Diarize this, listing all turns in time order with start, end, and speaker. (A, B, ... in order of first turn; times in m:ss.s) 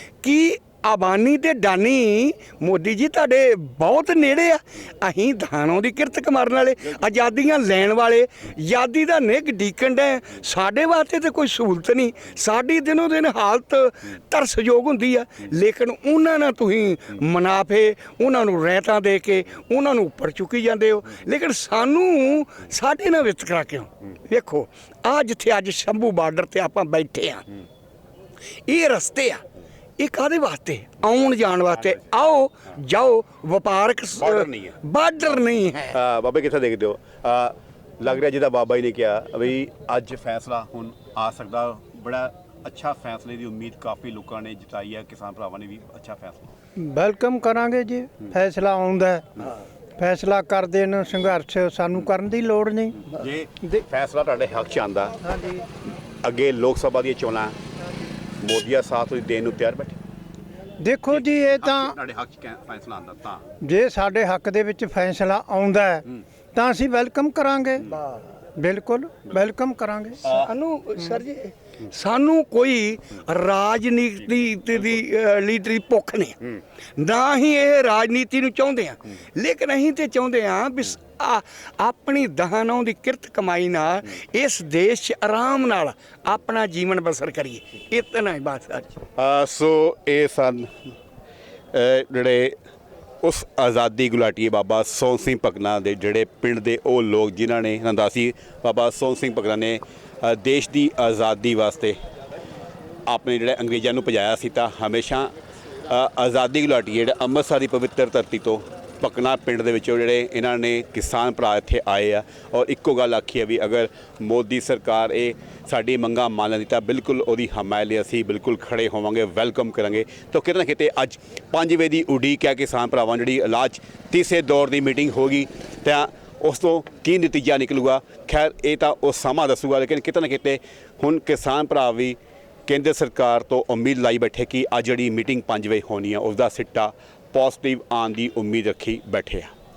0:00.2-0:27.5 A
0:28.7-0:29.4 A
0:30.0-0:36.0 A
0:31.8-0:32.1 B
0:34.2-0:34.8 B
0:35.9-0:46.5 B
0:46.8-0:49.2 C
0:50.0-0:53.1 C
0:53.0-0:55.2 B
0:55.3-0:55.6 C
0:56.2-0:57.6 B
0:58.4-1:00.0 B
1:00.8-1:01.9 C
1:01.1-1:03.4 B
1:03.6-1:08.0 C
1:08.6-1:10.2 C
1:10.2-1:29.0 A
1:29.2-1:30.7 B
1:31.7-1:32.6 B
1:33.2-1:42.0 B
1:43.1-1:45.3 B
1:45.9-2:19.5 B